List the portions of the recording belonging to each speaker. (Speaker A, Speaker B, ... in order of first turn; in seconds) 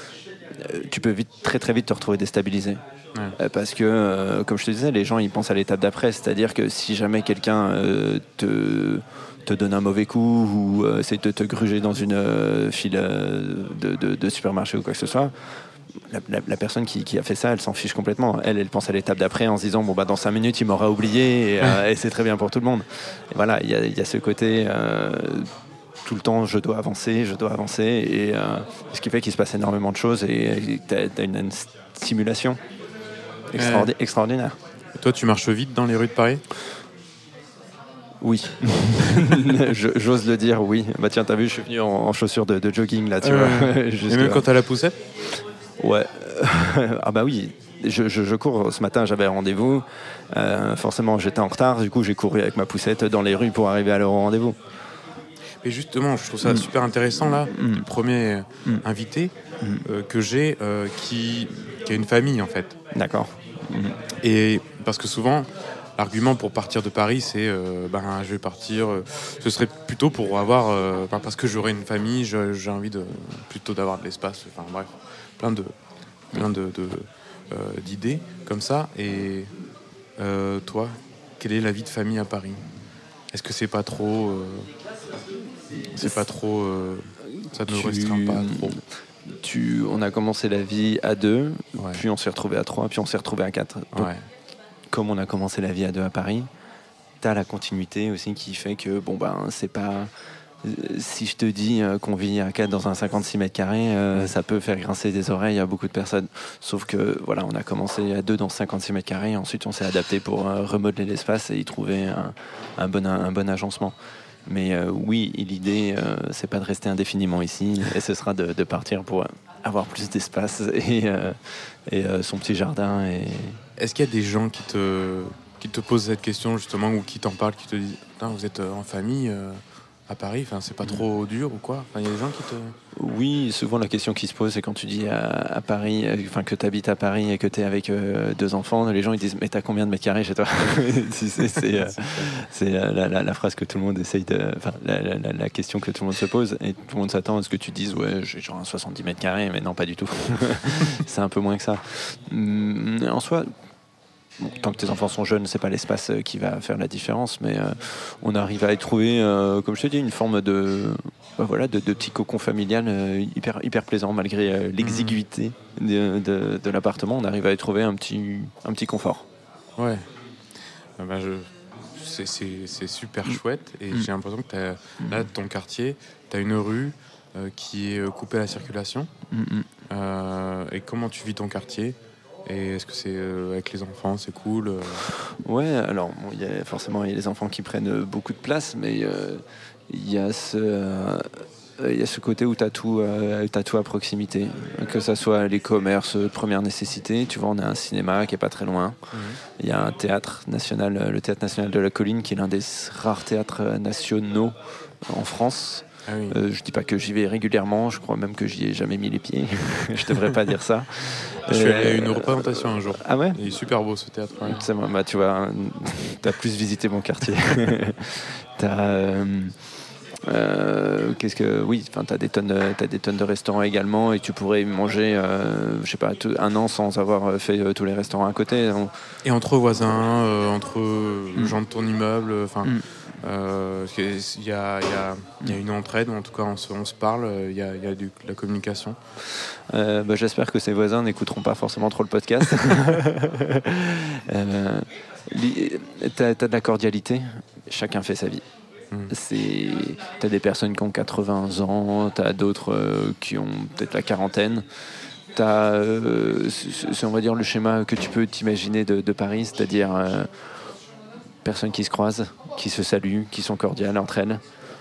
Speaker A: 0.6-2.8, 3.4-25.5, 26.0-32.6, 33.5-34.6, 38.2-44.4, 45.8-54.6, 57.4-57.9, 62.9-64.0, 87.5-94.1, 94.9-96.5, 97.2-100.1, 100.6-113.9, 114.5-123.6, 132.9-153.5, 154.4-169.2, 175.0-175.3, 179.3-179.7, 185.3-199.0, 199.6-213.4, 214.4-219.5, 220.2-228.9, 239.7-248.4, 249.1-254.7, 255.3-260.5, 261.4-264.4
Speaker B: 33.5-33.9, 35.0-36.4, 43.2-45.0, 55.6-59.3, 59.8-62.8, 64.2-75.7, 76.3-79.5, 80.2-82.6, 83.3-84.7, 85.9-88.8, 91.8-92.0, 93.9-94.2, 123.8-132.8, 141.4-142.3, 164.8-165.2, 169.8-170.1, 171.0-179.1, 179.9-185.1, 199.1-199.4, 206.1-206.3, 211.5-214.6, 229.2-239.0